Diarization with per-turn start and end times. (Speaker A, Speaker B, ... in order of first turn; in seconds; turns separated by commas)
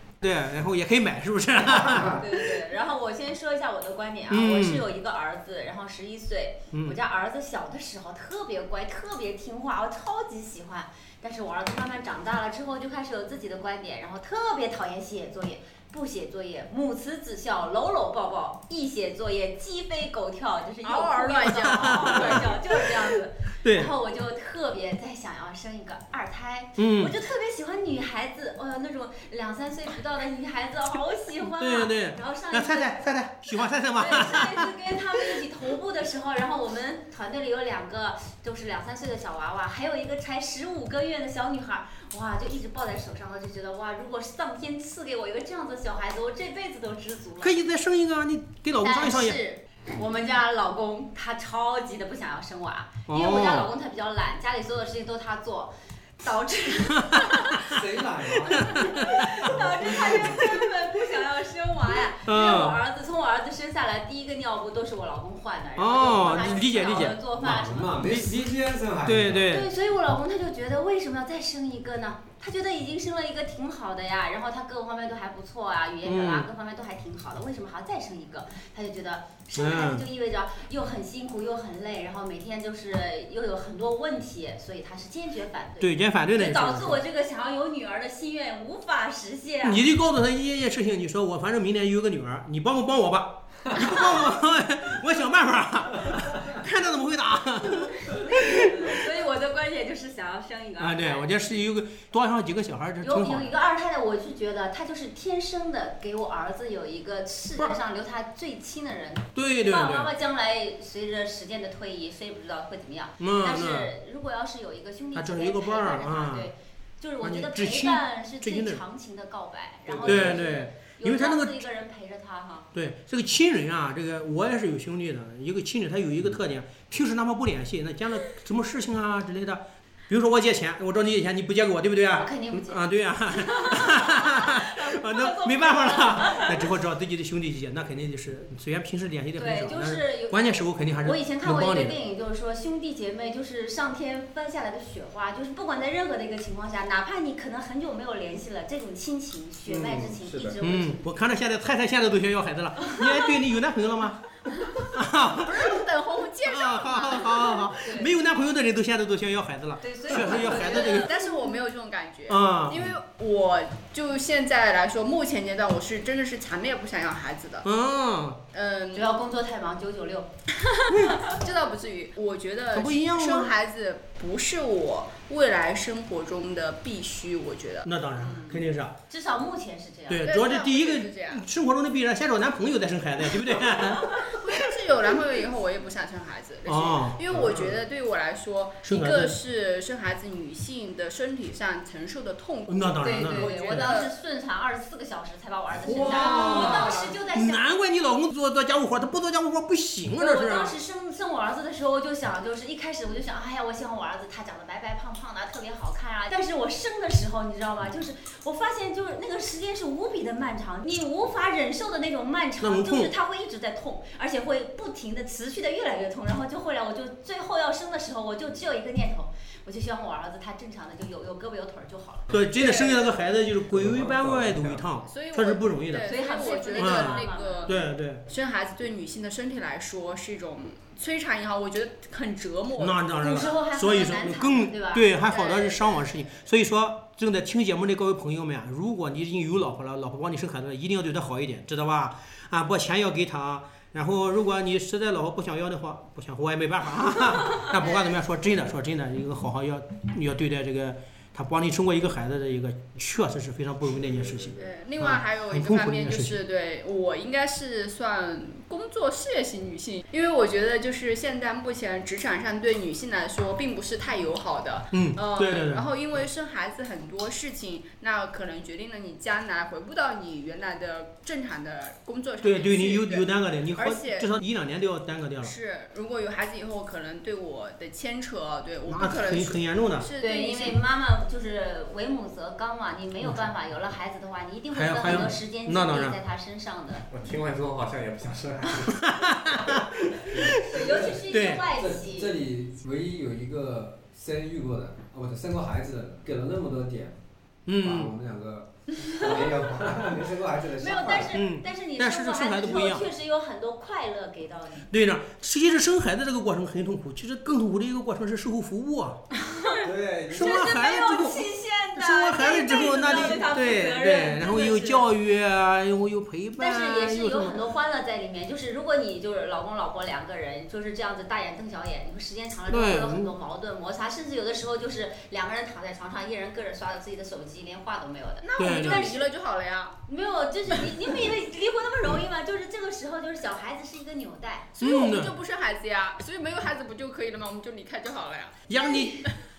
Speaker A: 0.2-2.4, Speaker B: 2.0-47.5, Speaker A: 4.3-4.8, Speaker C: 20.8-22.5, Speaker A: 21.6-23.0, Speaker A: 23.6-23.9, Speaker A: 26.8-27.1, Speaker A: 31.6-34.7, Speaker A: 47.4-49.4, Speaker B: 48.8-57.6, Speaker A: 53.1-53.7, Speaker A: 57.1-57.8, Speaker D: 57.6-60.5, Speaker A: 58.5-59.5, Speaker B: 58.5-68.0, Speaker A: 60.2-60.6, Speaker A: 62.2-62.8, Speaker A: 65.8-67.2, Speaker D: 67.4-69.5, Speaker A: 68.0-68.5, Speaker A: 69.0-69.7, Speaker B: 69.5-89.9, Speaker A: 76.0-76.5, Speaker A: 79.5-80.0, Speaker A: 85.8-87.0, Speaker A: 89.6-98.7, Speaker B: 93.7-94.2, Speaker B: 97.9-101.3, Speaker A: 100.8-103.5, Speaker B: 103.0-122.7, Speaker A: 109.3-110.1, Speaker A: 113.2-113.9, Speaker A: 115.1-116.5, Speaker A: 117.2-118.8, Speaker A: 120.0-121.6, Speaker D: 120.0-120.3, Speaker A: 122.7-142.0, Speaker B: 132.1-132.8, Speaker B: 133.3-136.7, Speaker B: 139.3-151.0, Speaker A: 149.7-150.1, Speaker E: 150.2-150.5, Speaker A: 150.6-155.8, Speaker C: 155.5-157.5, Speaker A: 156.4-161.1, Speaker B: 157.8-158.1, Speaker B: 159.8-161.2, Speaker C: 160.2-167.6, Speaker A: 162.3-162.9, Speaker A: 167.6-168.4, Speaker C: 168.5-169.1, Speaker B: 168.9-170.3, Speaker C: 170.6-178.6, Speaker A: 170.9-171.2, Speaker A: 172.7-173.6, Speaker A: 177.8-178.9, Speaker B: 179.1-180.3, Speaker A: 180.1-184.6, Speaker C: 180.2-181.4, Speaker C: 184.2-194.1, Speaker A: 186.7-187.7, Speaker A: 188.8-189.3, Speaker A: 192.7-193.9, Speaker B: 193.0-197.8, Speaker A: 195.7-200.7, Speaker C: 195.9-197.1, Speaker B: 200.2-222.3, Speaker A: 212.6-213.1, Speaker A: 222.3-226.1, Speaker C: 222.5-223.1, Speaker D: 223.7-224.8, Speaker C: 225.0-233.1, Speaker B: 226.1-227.7, Speaker A: 226.8-228.2, Speaker A: 232.8-256.4, Speaker B: 233.2-235.1, Speaker C: 235.2-236.1, Speaker C: 254.6-274.3, Speaker A: 264.9-265.9, Speaker A: 272.4-275.5, Speaker C: 275.4-280.8, Speaker A: 278.9-280.1, Speaker B: 280.2-287.0, Speaker A: 284.7-286.2, Speaker E: 287.1-289.0, Speaker A: 288.9-290.7, Speaker D: 290.5-297.1, Speaker B: 290.6-292.3, Speaker A: 291.3-291.6, Speaker A: 297.7-298.1, Speaker D: 297.8-301.4, Speaker B: 299.0-299.4, Speaker B: 300.8-304.9, Speaker A: 301.3-303.1, Speaker A: 304.9-309.2, Speaker B: 309.3-315.1, Speaker D: 309.9-310.2, Speaker A: 310.3-317.6, Speaker B: 316.6-329.1, Speaker A: 322.7-323.3, Speaker C: 328.4-329.9, Speaker A: 328.6-329.2, Speaker B: 330.1-334.7, Speaker C: 334.8-338.6, Speaker A: 334.8-335.3, Speaker A: 338.7-339.3, Speaker B: 338.8-339.1